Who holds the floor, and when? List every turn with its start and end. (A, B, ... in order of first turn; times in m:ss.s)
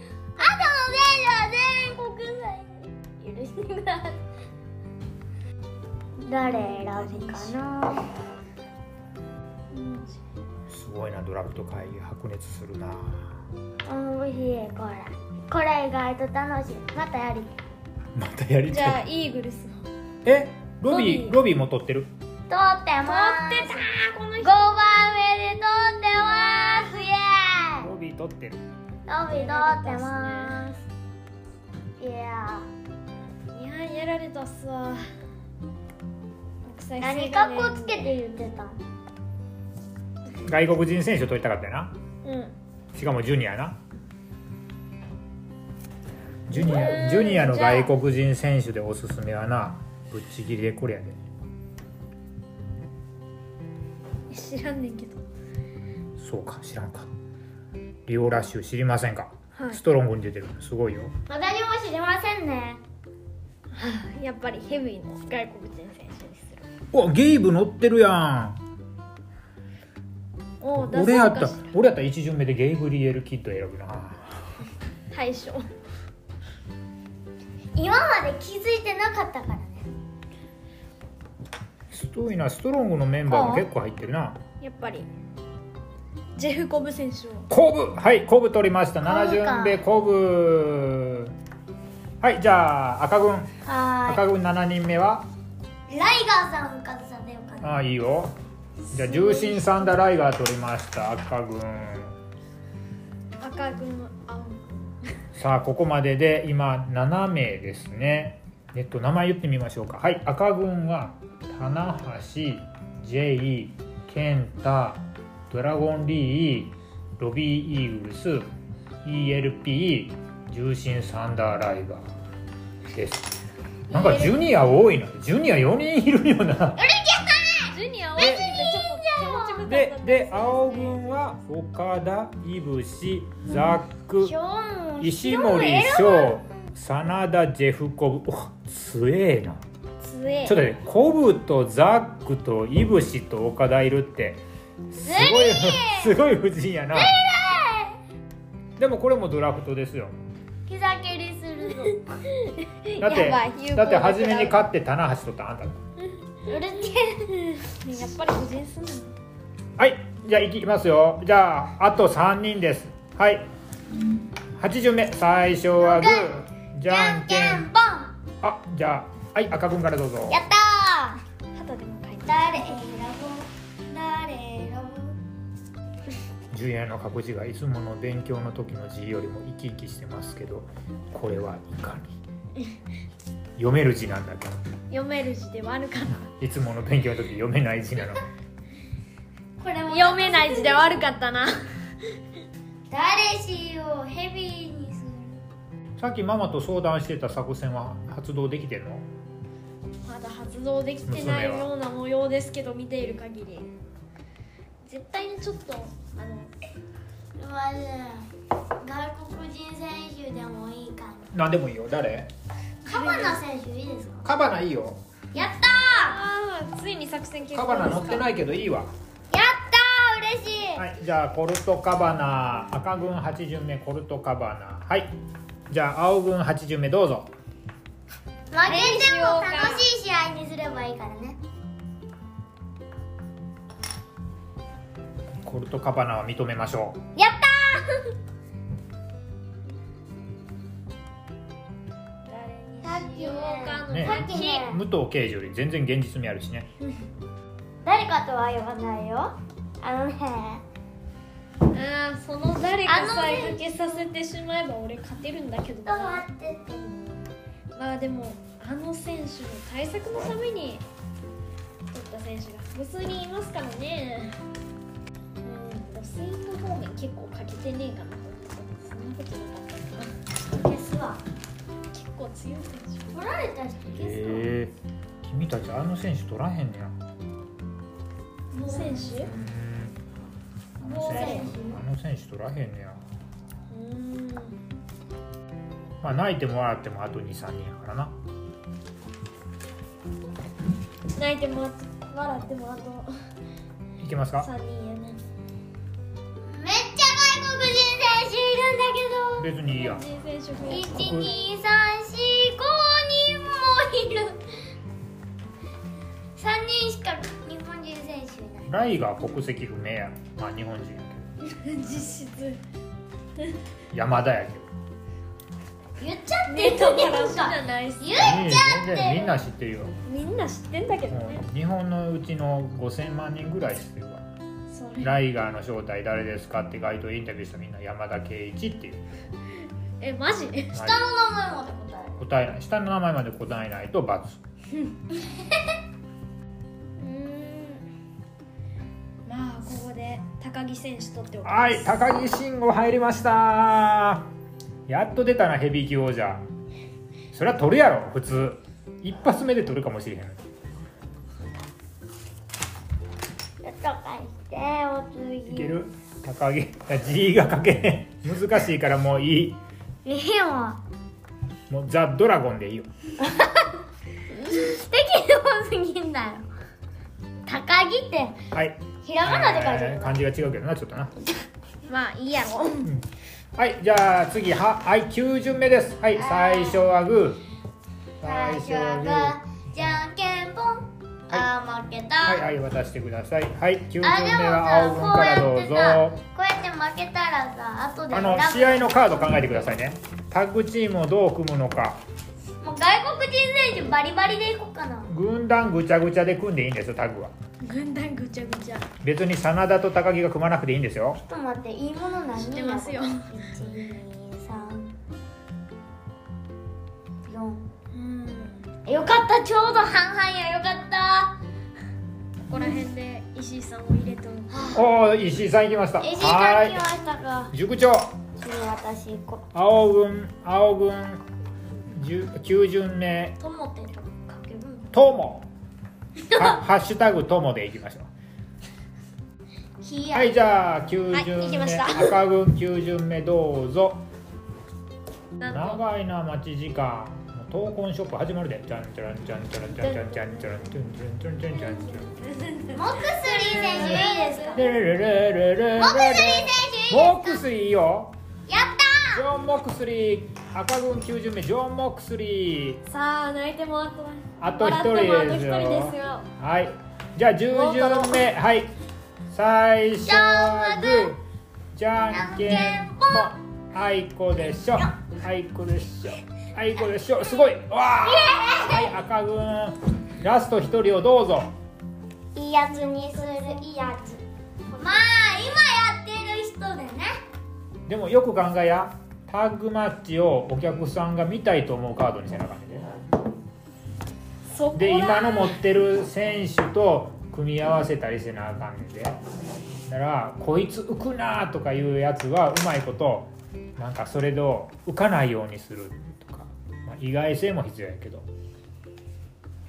0:00.4-0:04.2 A
0:06.2-0:08.0 A
0:06.4-0:07.6 B
0:09.7-0:10.2 B
0:10.7-0:13.4 C
0:13.8-0:17.5 A
0:18.1-0:19.0 C
0:18.7-0:19.9 B
0:20.2-0:22.1 C
0:20.9-0:21.4 B
0:22.5-0:23.8 A
0:23.0-0:24.7 B
0:24.4-0:27.9 A
0:26.2-0:27.0 B
0:27.8-0:28.6 C
0:29.1-0:30.8 A
0:29.3-0:30.7 B
0:32.0-0:32.7 A
0:33.5-0:35.1 B
0:36.6-0:38.1 B
0:37.0-0:38.8 A
0:40.4-0:41.9 C
0:42.2-0:42.6 B
0:42.9-0:43.8 C
0:46.5-0:51.2 C
0:46.5-0:47.9 B
0:54.3-0:55.2 B
0:56.2-0:57.1 C
0:58.1-1:01.1 C
0:59.6-0:59.8 B
1:01.3-1:02.8 A
1:03.7-1:06.6 B
1:06.9-1:08.6 C
1:10.6-1:11.8 B
1:10.7-1:14.3 C
1:15.1-1:15.7 B
1:17.7-1:19.9 A
1:21.9-1:24.4 C
1:23.3-1:23.6 A
1:24.6-1:25.1 B
1:26.4-1:27.5 B
1:27.5-1:31.3 C
1:29.0-1:29.8 A
1:32.2-1:33.5 C
1:33.6-1:34.2 A
1:34.1-1:35.2 C
1:35.9-1:37.8 A
1:37.6-1:38.3 C
1:38.9-1:42.2 C
1:39.1-1:39.6 A
1:43.4-1:45.1 B
1:45.4-1:58.5 C
1:59.0-2:02.0 C
2:02.9-2:03.4 C
2:03.9-2:06.8 C
2:03.9-2:04.4 B
2:06.8-2:07.7 A
2:07.7-2:11.2 B
2:08.2-2:08.6 C
2:08.4-2:09.6 A
2:09.6-2:14.3 C
2:14.2-2:16.4 A
2:15.0-2:19.6 C
2:20.0-2:20.6 B
2:20.4-2:27.2 C
2:25.0-2:26.2 A
2:26.9-2:27.9 A
2:28.8-2:30.2 C
2:30.7-2:32.1 A
2:32.3-2:34.6 B
2:33.0-2:35.8 C
2:36.1-2:36.6 B
2:36.4-2:37.5 A
2:37.4-2:39.1 B
2:39.8-2:43.4 C
2:44.6-2:47.7 C
2:45.8-2:48.1 A
2:48.4-2:50.4 C
2:50.3-2:51.2 A
2:51.6-2:52.8 B
2:52.2-2:55.2 A
2:56.5-3:02.2 C
3:03.6-3:04.6 C
3:04.9-3:06.3 B
3:06.4-3:08.2 C
3:09.6-3:11.0 A
3:09.9-3:11.6 B
3:12.9-3:15.4 A
3:16.0-3:19.1 C
3:20.1-3:23.7 B
3:21.0-3:21.7 C
3:24.9-3:26.5 B
3:27.4-3:28.3 A
3:28.8-3:31.3 A
3:31.3-3:32.3 C
3:32.8-3:34.3 A
3:32.9-3:33.4 B
3:34.2-3:35.0 C
3:35.3-3:36.2 A
3:35.7-3:38.3 B
3:37.5-3:38.9 C
3:39.3-3:40.9 A
3:40.8-3:45.1 C
3:45.7-3:47.3 C
3:48.5-3:51.4 A
3:48.6-3:49.9 B
3:55.4-3:57.0 C
3:57.2-3:58.1 A
4:02.2-4:04.6 B
4:02.8-4:04.8 A
4:03.9-4:06.7 C
4:07.8-4:10.6 A
4:11.7-4:16.2 B
4:12.9-4:13.9 A
4:15.9-4:17.3 A
4:17.7-4:20.8 B
4:21.9-4:24.4 B
4:25.4-4:30.1 B
4:30.5-4:31.2 A
4:31.9-4:33.1 B
4:33.1-4:34.5 A
4:33.9-4:37.0 C
4:38.5-4:39.3 A
4:38.6-4:39.3 B
4:39.2-4:40.0 C
4:40.8-4:43.0 C
4:40.8-4:41.8 A
4:41.1-4:41.5 B
4:43.7-4:44.6 B
4:46.0-4:48.1 C
4:51.2-4:53.1 B
4:54.0-4:54.5 C
4:54.4-4:55.2 B
4:56.4-4:59.4 A
4:59.4-5:00.0 C
4:59.7-5:01.4 B
5:00.7-5:04.4 A
5:06.4-5:08.7 A
5:08.7-5:11.3 C
5:11.4-5:12.6 B
5:13.9-5:14.7 C
5:16.0-5:19.4 A
5:16.5-5:18.3 B
5:18.2-5:20.0 C
5:20.0-5:21.4 B
5:21.1-5:24.2 C
5:24.7-5:25.1 B
5:25.0-5:29.0 C
5:30.0-5:30.7 B
5:30.7-5:31.1 C
5:30.7-5:32.2 A
5:32.2-5:34.4 C
5:37.0-5:37.9 B
5:39.2-5:42.0 B
5:41.4-5:44.3 C
5:44.9-5:46.4 C
5:47.3-5:50.4 C
5:53.6-5:55.8 A
5:55.5-5:59.6 C
6:00.0-6:00.8 A
6:01.7-6:02.9 C
6:03.2-6:03.5 A
6:04.3-6:06.4 A
6:07.5-6:08.4 A
6:08.5-6:11.1 C
6:09.0-6:10.2 A
6:11.9-6:12.9 B
6:12.8-6:17.4 C
6:16.1-6:16.9 A
6:18.2-6:19.4 C
6:18.2-6:22.4 A
6:22.2-6:26.2 C
6:24.0-6:29.4 A
6:28.1-6:32.0 C
6:32.6-6:35.1 A
6:35.1-6:37.3 C
6:37.6-6:38.9 B
6:39.0-6:41.2 C
6:41.2-6:44.9 A
6:42.4-6:43.3 B
6:47.2-6:47.7 A
6:47.9-6:48.7 B
6:48.9-6:51.4 A
6:52.5-6:54.8 B
6:52.5-6:52.8 A
6:54.5-6:54.8 A
6:54.7-6:56.8 C
6:56.0-6:57.5 A
6:57.5-6:58.1 C
6:58.4-6:59.4 A
6:59.5-7:01.2 C
7:01.9-7:03.4 C
7:03.4-7:04.9 A
7:04.9-7:05.5 C
7:06.3-7:06.6 A
7:06.4-7:08.1 C
7:09.8-7:10.4 A
7:10.1-7:14.0 C
7:11.1-7:12.2 B
7:15.4-7:15.8 B
7:15.5-7:22.1 C
7:19.8-7:20.7 B
7:21.6-7:24.7 B
7:22.7-7:24.6 A
7:23.6-7:28.1 C
7:25.8-7:27.4 A
7:28.5-7:29.3 A
7:29.1-7:32.8 C
7:32.9-7:36.3 B
7:34.4-7:38.7 C
7:37.5-7:38.2 B
7:39.3-7:41.2 C
7:40.1-7:41.1 A
7:41.7-7:51.5 C
7:42.1-7:43.4 A
7:48.0-7:48.9 A
7:52.4-7:54.2 A
7:52.7-7:53.8 B
7:54.7-7:55.0 B
7:54.8-7:57.2 A
7:57.9-8:02.9 C
8:04.5-8:05.6 B
8:04.7-8:09.2 C
8:09.9-8:18.3 C